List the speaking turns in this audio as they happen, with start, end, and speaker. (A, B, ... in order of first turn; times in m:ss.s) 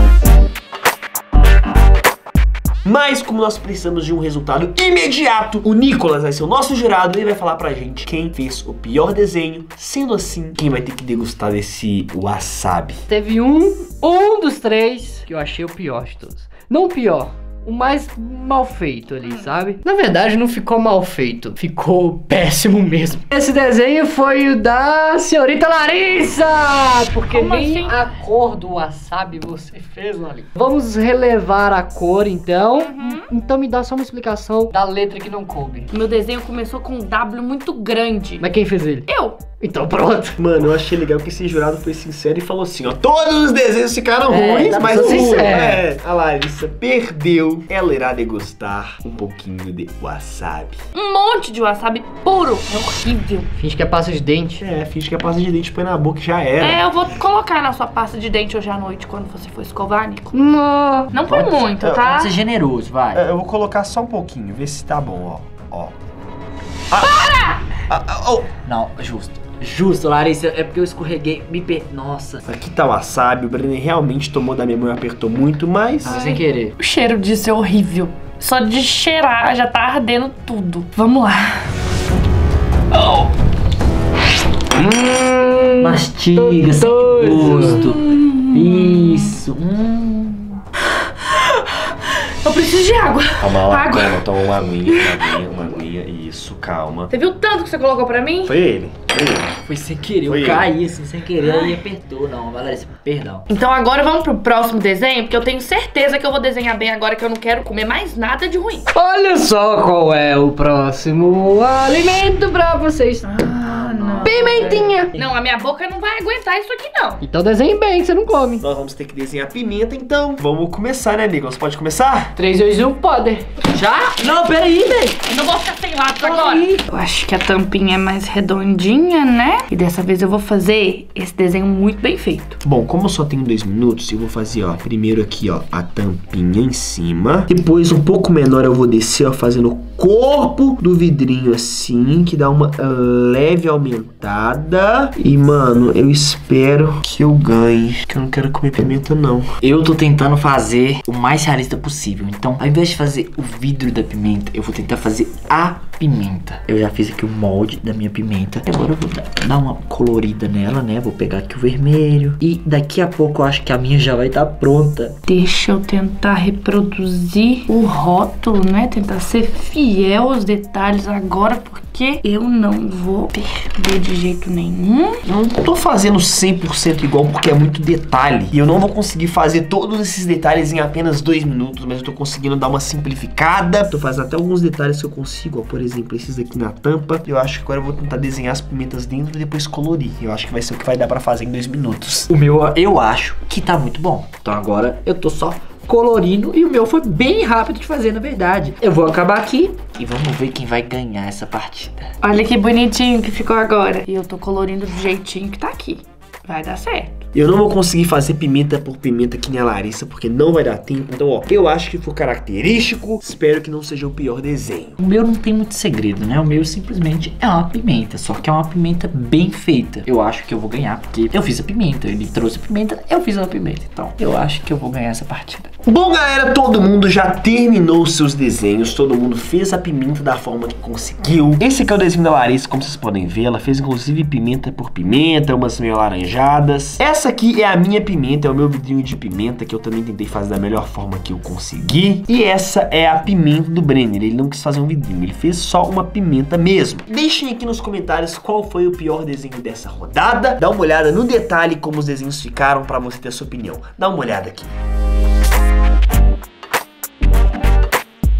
0:02.8-0:13.0 A
0:13.1-0:35.9 B
0:27.3-0:28.1 C
0:32.9-0:33.3 C
0:35.9-0:38.4 C
0:38.4-0:39.1 B
0:39.1-0:39.4 C
0:39.6-0:40.5 B
0:40.4-0:50.8 A
0:44.3-0:45.8 B
0:44.5-0:45.6 D
0:50.9-0:53.5 C
0:53.6-0:54.6 B
0:54.6-0:56.8 A
0:56.6-1:00.4 C
1:00.3-1:01.1 B
1:01.1-1:02.4 C
1:01.1-1:03.2 D
1:03.1-1:05.9 A
1:06.9-1:07.2 A
1:07.0-1:07.6 C
1:07.9-1:08.5 A
1:08.6-1:12.4 D
1:12.4-1:16.2 A
1:16.0-1:16.7 D
1:16.0-1:21.7 C
1:22.9-1:23.3 C
1:24.8-1:27.9 B
1:25.8-1:30.6 D
1:27.8-1:29.4 C
1:31.2-1:35.4 C
1:33.4-1:37.1 A
1:37.1-1:38.5 C
1:38.5-1:39.6 A
1:39.6-1:43.4 D
1:40.2-1:40.7 A
1:41.4-1:41.8 C
1:43.5-1:48.9 C
1:48.9-1:53.3 B
1:53.2-1:57.2 C
1:53.7-1:54.4 D
1:54.2-1:55.2 B
1:57.2-1:58.6 B
1:58.6-2:02.3 A
2:02.4-2:03.5 B
2:03.7-2:05.2 D
2:05.2-2:12.6 C
2:06.2-2:06.8 D
2:12.6-2:29.6 A
2:29.6-2:45.2 D
2:45.3-2:55.2 C
2:55.2-3:12.3 A
3:12.3-3:22.1 D
3:22.2-3:27.2 C
3:27.3-3:35.0 A
3:35.0-3:45.7 D
3:45.8-4:14.8 A